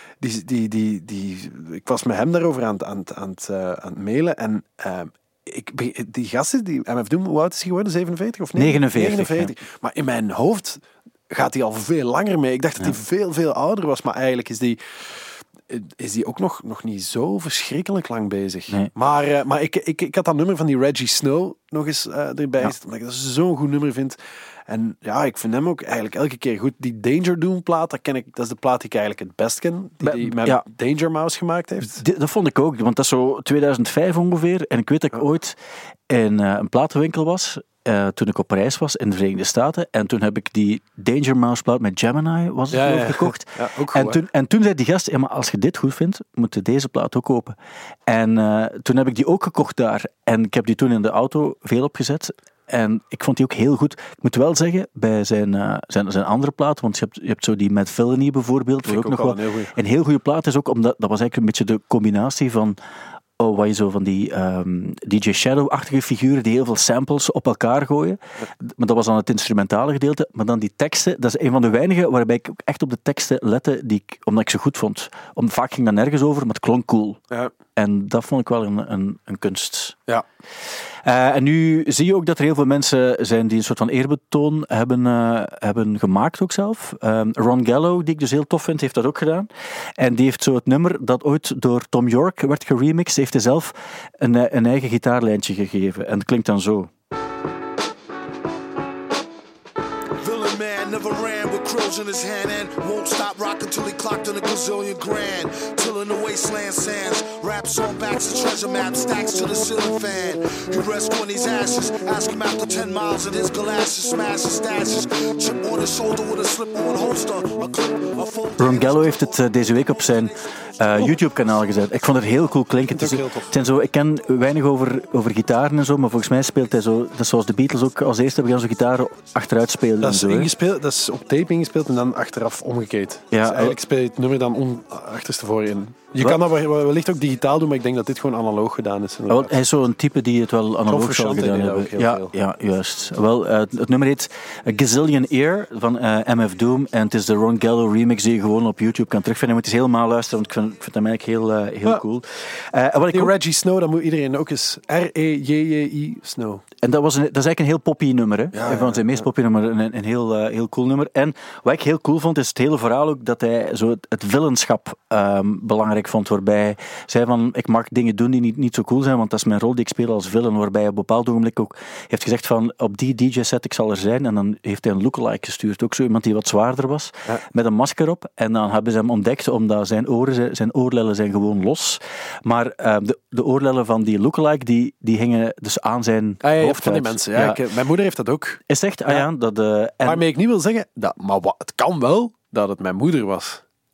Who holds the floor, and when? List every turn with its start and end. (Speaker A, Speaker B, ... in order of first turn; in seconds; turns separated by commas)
Speaker A: 0.2-32.0, Speaker B: 8.6-9.5, Speaker B: 30.0-30.6, Speaker B: 32.0-35.5, Speaker B: 36.1-47.5, Speaker A: 42.7-44.2, Speaker B: 48.1-62.8, Speaker A: 58.8-59.8, Speaker B: 63.4-77.2, Speaker B: 77.8-80.0, Speaker B: 81.0-96.9, Speaker C: 100.2-120.1, Speaker B: 118.6-130.5, Speaker A: 122.9-123.5, Speaker A: 130.0-139.6, Speaker B: 133.3-133.8, Speaker B: 139.3-153.3, Speaker A: 140.9-142.3, Speaker A: 153.1-156.6, Speaker B: 156.8-187.6, Speaker A: 158.5-159.2, Speaker A: 186.4-189.3, Speaker B: 188.7-190.2, Speaker A: 190.0-193.6